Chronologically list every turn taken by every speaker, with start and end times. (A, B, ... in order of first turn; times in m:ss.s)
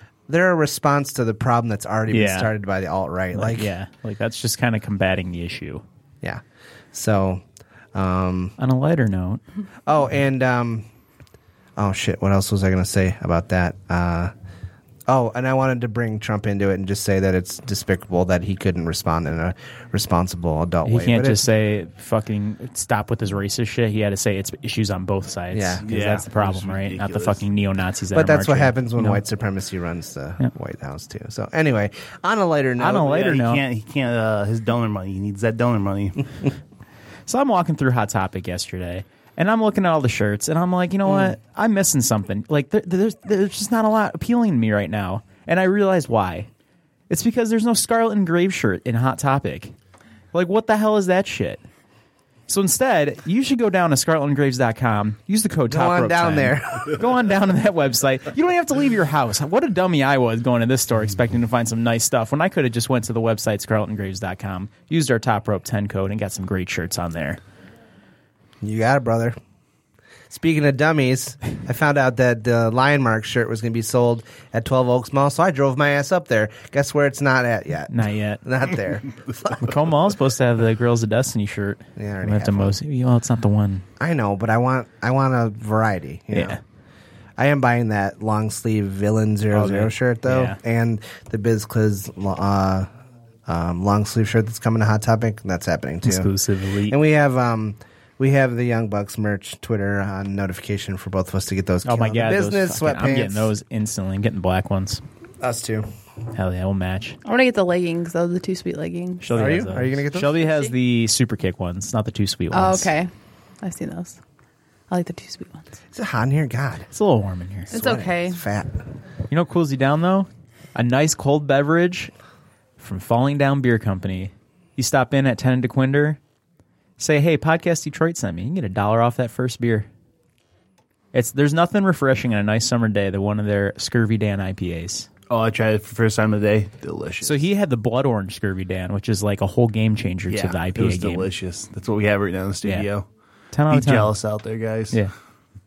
0:00.3-0:03.7 A
0:02.1-0:02.5 B
0:03.3-0:05.8 B
0:06.9-0:07.4 A
0:07.9-0:08.5 A
0:08.6-0:09.4 B
0:09.9-0:10.8 A
0:11.8-0:14.3 A
0:15.1-0:21.4 A
0:20.8-0:29.2 B
0:25.5-0:25.8 A
0:25.8-0:27.4 C
0:28.1-0:33.5 A
0:32.8-0:33.6 B
0:33.2-0:36.3 C
0:37.3-0:46.5 B
0:47.1-0:49.7 B
0:50.3-0:51.6 B
0:52.5-1:07.4 B
0:55.7-0:57.0 A
1:08.6-1:09.4 A
1:10.3-1:19.6 A
1:17.9-1:18.4 B
1:19.6-1:23.8 B
1:22.0-1:22.8 A
1:24.0-1:26.6 A
1:26.3-1:26.6 B
1:27.4-1:32.9 A
1:29.5-1:30.6 B
1:33.5-1:36.3 A
1:36.0-1:37.0 B
1:36.9-1:43.5 A
1:41.8-1:45.0 B
1:45.4-1:45.9 A
1:46.3-1:47.2 B
1:47.2-1:49.4 D
1:49.2-1:52.9 B
1:49.3-1:50.4 A
1:50.3-1:50.7 D
1:52.5-1:53.1 D
1:53.6-1:54.2 D
1:54.9-1:55.6 D
1:55.9-1:56.9 A
1:56.9-1:57.7 B
1:57.7-1:58.8 A
1:57.7-1:58.4 D
1:59.3-2:02.1 B
2:02.8-2:06.2 B
2:07.0-2:09.9 B
2:11.1-2:15.1 B
2:15.3-2:17.4 C
2:17.2-2:21.3 B
2:20.3-2:23.0 C
2:23.5-2:24.1 B
2:23.7-2:25.0 C